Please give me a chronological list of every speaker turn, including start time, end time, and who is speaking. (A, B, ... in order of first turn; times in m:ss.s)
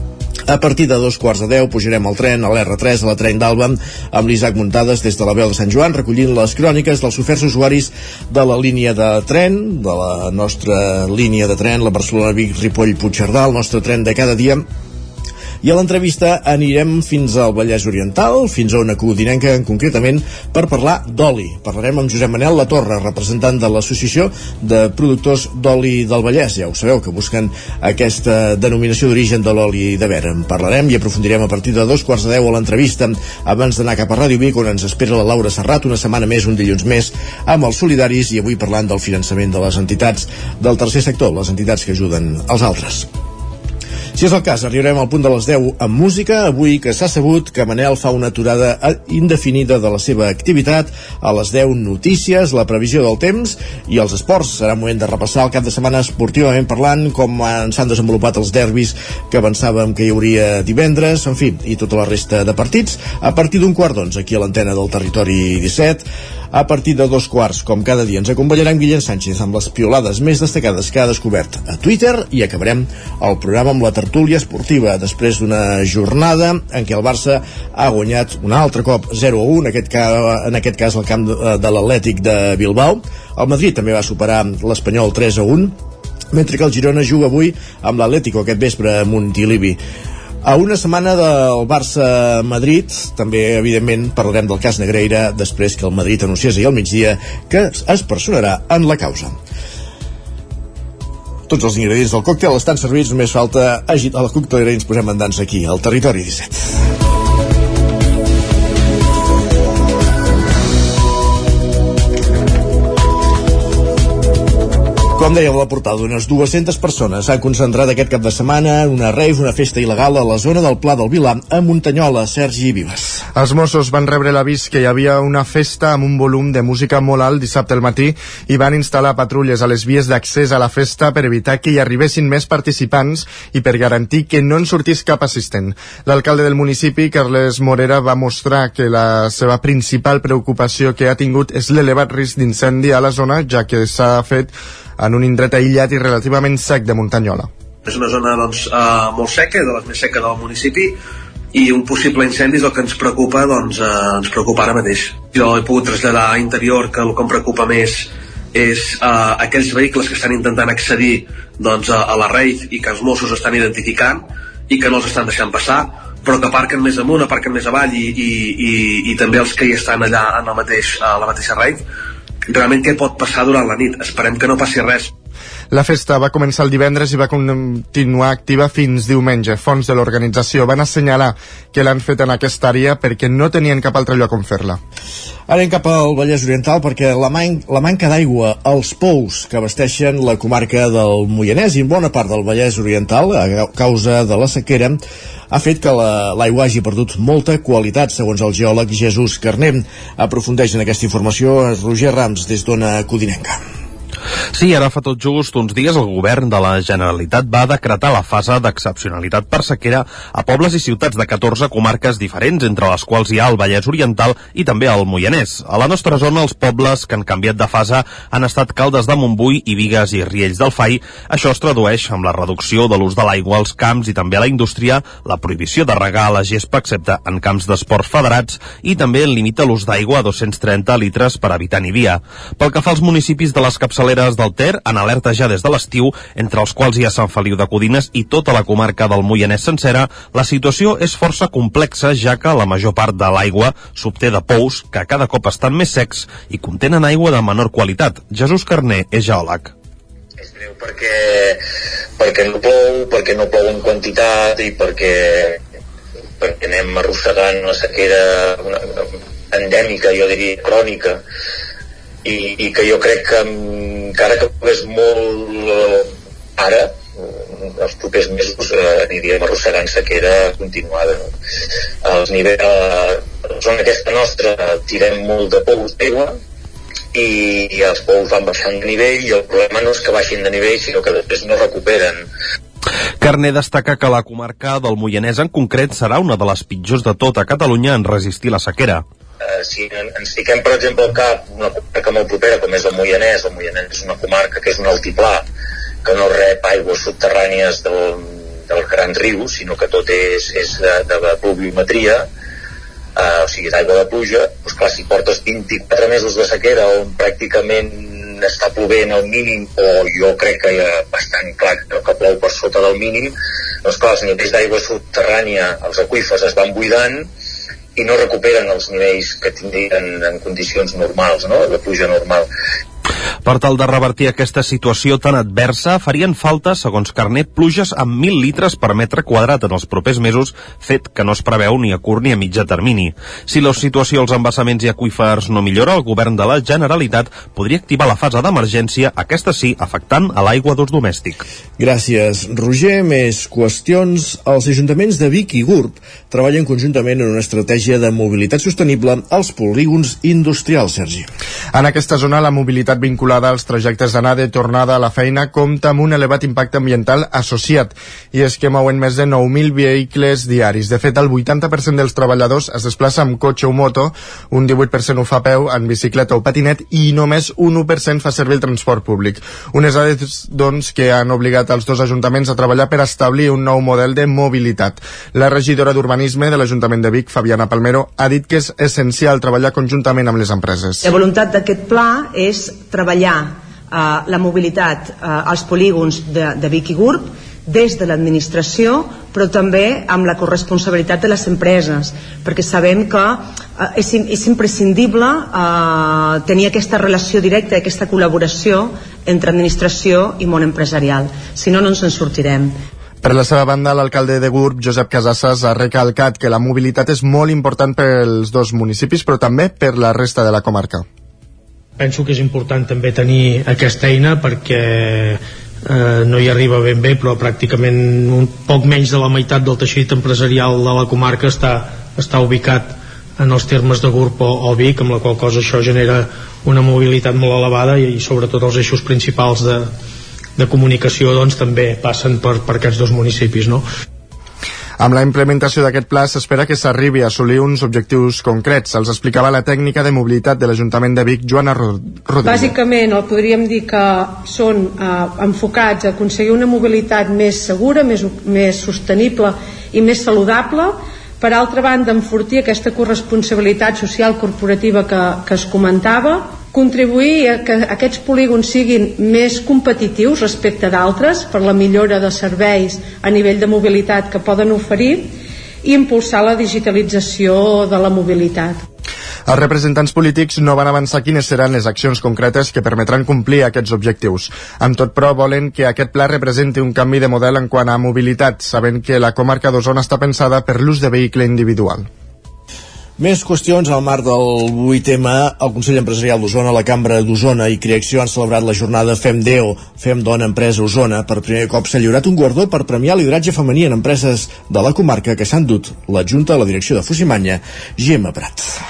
0:00.5-0:14.6 A
0:15.6-0:43.1 A
0:44.1-1:25.8 A
1:26.3-1:29.8 A
1:30.4-1:39.4 A
1:41.5-1:46.7 A
1:55.1-2:03.2 A
2:03.3-2:27.5 B
2:27.8-2:31.0 C
2:31.5-2:51.8 C
2:52.5-2:55.1 C
2:55.7-3:04.8 B
3:05.5-3:23.6 A
3:24.5-4:09.7 D
4:10.4-4:11.6 E
4:12.2-4:15.6 E
4:16.4-4:21.2 E
4:22.2-4:31.3 E
4:32.0-4:36.4 E
4:37.1-4:42.3 E
4:43.2-4:49.0 D
4:49.4-4:55.4 E
4:56.0-5:02.3 E
5:03.2-5:17.3 E
5:17.9-5:22.5 E
5:23.4-5:41.4 D
5:41.8-5:51.3 A
5:51.7-6:21.1 B
6:21.9-6:22.5 F
6:27.7-6:32.1 F
6:32.7-6:33.3 F
6:34.0-6:35.3 F
6:36.5-6:42.7 F
6:43.2-6:51.0 B
6:52.0-7:09.9 G
7:10.6-7:13.8 G
7:15.0-7:22.7 B
7:22.4-7:48.8 H
7:49.5-8:02.1 B
8:03.2-8:18.7 A